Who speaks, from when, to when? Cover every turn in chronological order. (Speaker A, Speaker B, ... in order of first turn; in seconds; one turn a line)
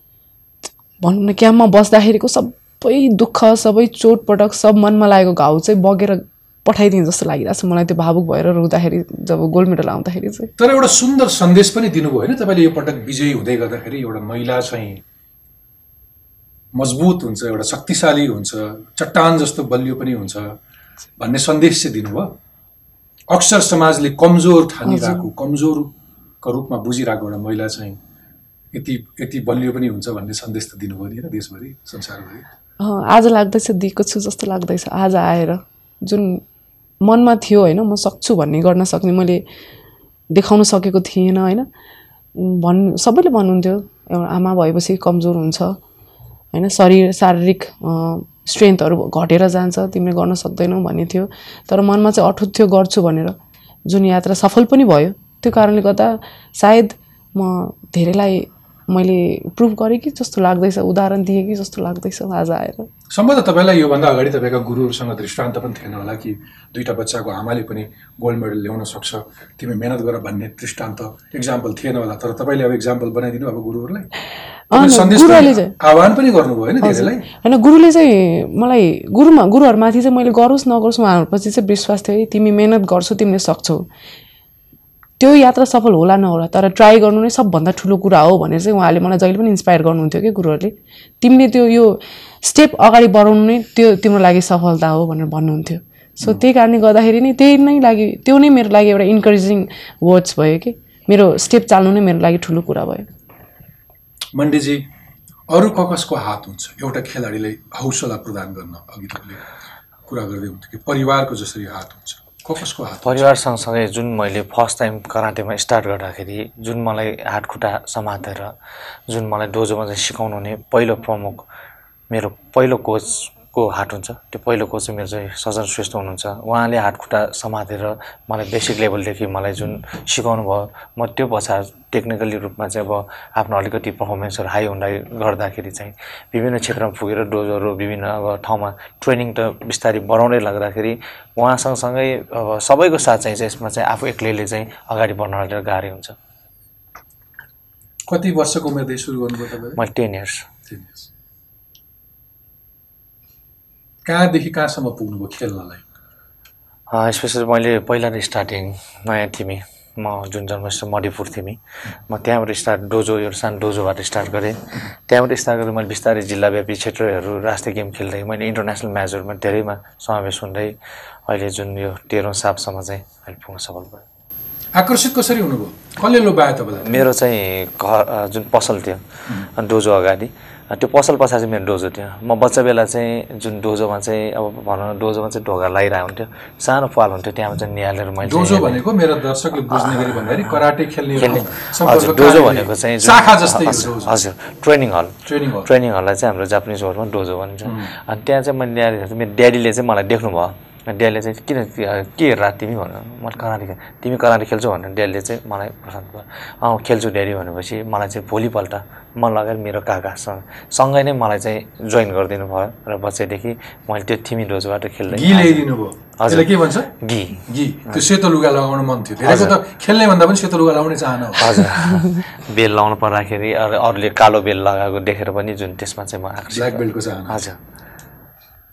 Speaker A: 1.0-10.5
Speaker B: 10.6-15.0
Speaker B: 16.7-20.6
Speaker B: 21.2-22.4
Speaker B: 23.3-28.0
Speaker A: 24.9-25.3
Speaker B: 28.7-32.5
Speaker A: 32.8-36.4
Speaker A: 37.0-39.4
Speaker A: 40.3-41.7
Speaker A: 42.4-45.8
Speaker A: 46.5-62.9
Speaker B: 63.1-74.1
Speaker A: 74.7-75.7
Speaker B: 74.7-77.3
Speaker A: 76.8-83.9
Speaker A: 85.2-103.1
Speaker B: 104.3-104.9
Speaker B: 105.5-109.5
Speaker B: 110.1-113.3
Speaker C: 113.0-118.5
Speaker C: 119.1-121.5
Speaker C: 122.1-146.2
Speaker B: 148.1-149.8
Speaker C: 149.8-150.5
Speaker B: 150.7-151.1
Speaker B: 154.1-155.8
Speaker C: 156.9-170.8
Speaker C: 171.3-174.0
Speaker B: 174.8-177.1
Speaker C: 176.8-179.0
Speaker C: 179.6-188.8
Speaker B: 188.2-194.2
Speaker C: 191.2-215.7
Speaker B: 195.2-195.7
Speaker B: 197.6-197.9
Speaker B: 215.1-216.9
Speaker C: 216.2-218.1
Speaker B: 217.5-222.0
Speaker C: 219.2-219.6
Speaker C: 221.4-227.6
Speaker B: 226.5-227.4